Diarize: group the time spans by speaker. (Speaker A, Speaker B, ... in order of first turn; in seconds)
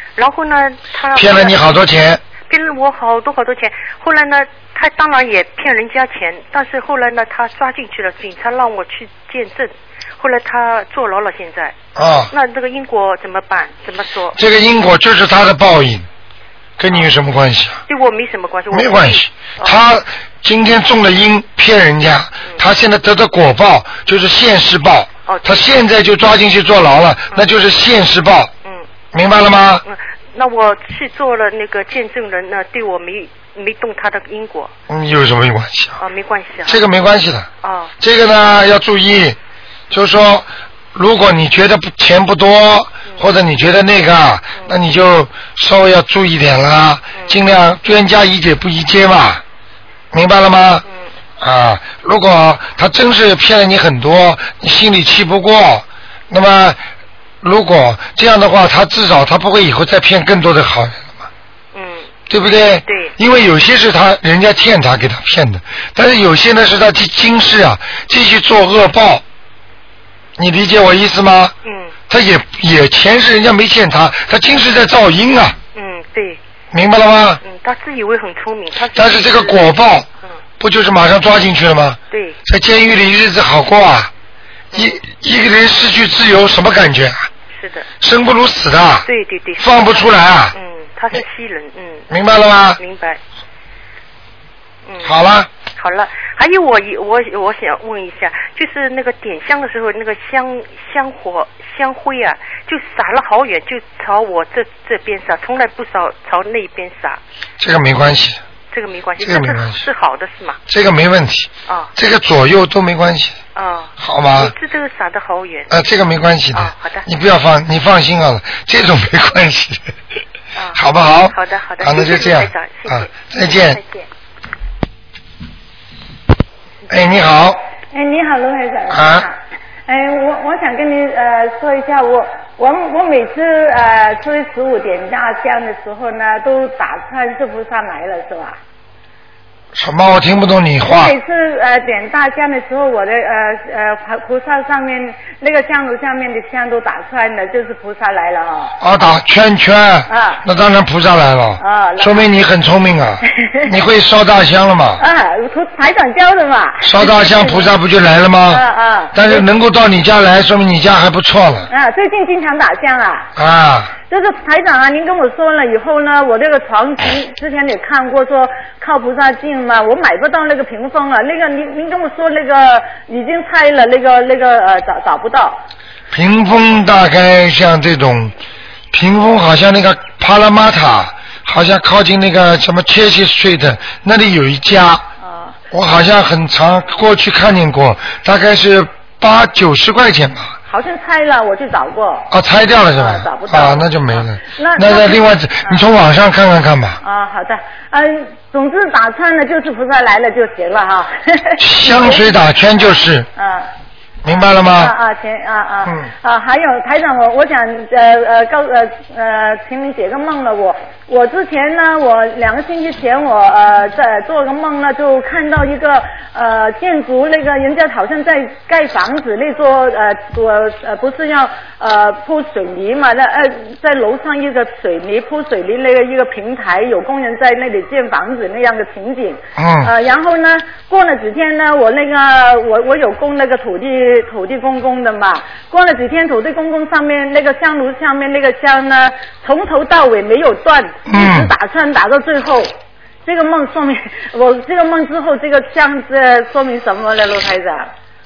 Speaker A: 0.1-1.8, 2.5-11.7, 12.3-14.4, 17.9-19.8, 25.3-25.7, 29.8-34.7, 36.0-36.8, 37.6-37.9, 61.7-62.1, 62.7-63.1, 71.6-71.9, 75.7-76.4, 77.4-79.8, 82.1-82.4, 84.7-85.0, 87.5-87.9, 89.0-92.1, 92.8-93.2, 94.9-95.2, 95.8-107.2, 108.7-110.6, 111.7-111.9, 113.5-115.7, 116.5-117.1, 120.5-124.1
Speaker B: 1.1-2.2, 11.9-12.3, 14.3-16.1, 16.8-17.8, 18.7-28.5, 29.1-29.8, 34.9-36.0, 36.6-37.5, 38.0-39.4, 39.9-49.4, 50.1-50.8, 51.4-56.8, 57.4-61.3, 62.3-69.2, 70.4-71.5, 72.1-75.6, 76.7-77.4, 78.9-80.1, 80.6-84.1, 84.7-87.3, 88.0-89.1, 89.6-90.5, 92.1-92.8, 95.0-95.5, 107.6-108.4, 109.2-109.8, 110.7-113.4, 114.0-114.5, 115.7-119.9, 120.7-123.8, 126.9-127.6, 128.9-129.3, 139.7-141.1, 148.8-155.0, 156.8-158.6, 159.1-161.7, 163.4-163.9, 176.1-178.3, 178.9-185.1, 185.7-190.6, 192.3-197.0, 201.6-203.3, 204.2-204.9, 205.8-206.1, 229.6-229.9, 241.1-241.5
Speaker C: 127.9-138.6, 140.9-148.8, 150.1-150.4, 151.6-152.3, 153.2-153.7, 155.0-157.7, 158.5-159.4, 161.7-163.3, 164.1-175.6, 185.2-185.6, 190.7-192.3, 192.9-195.8, 197.0-202.4, 203.3-203.7, 204.7-242.7, 243.2-247.9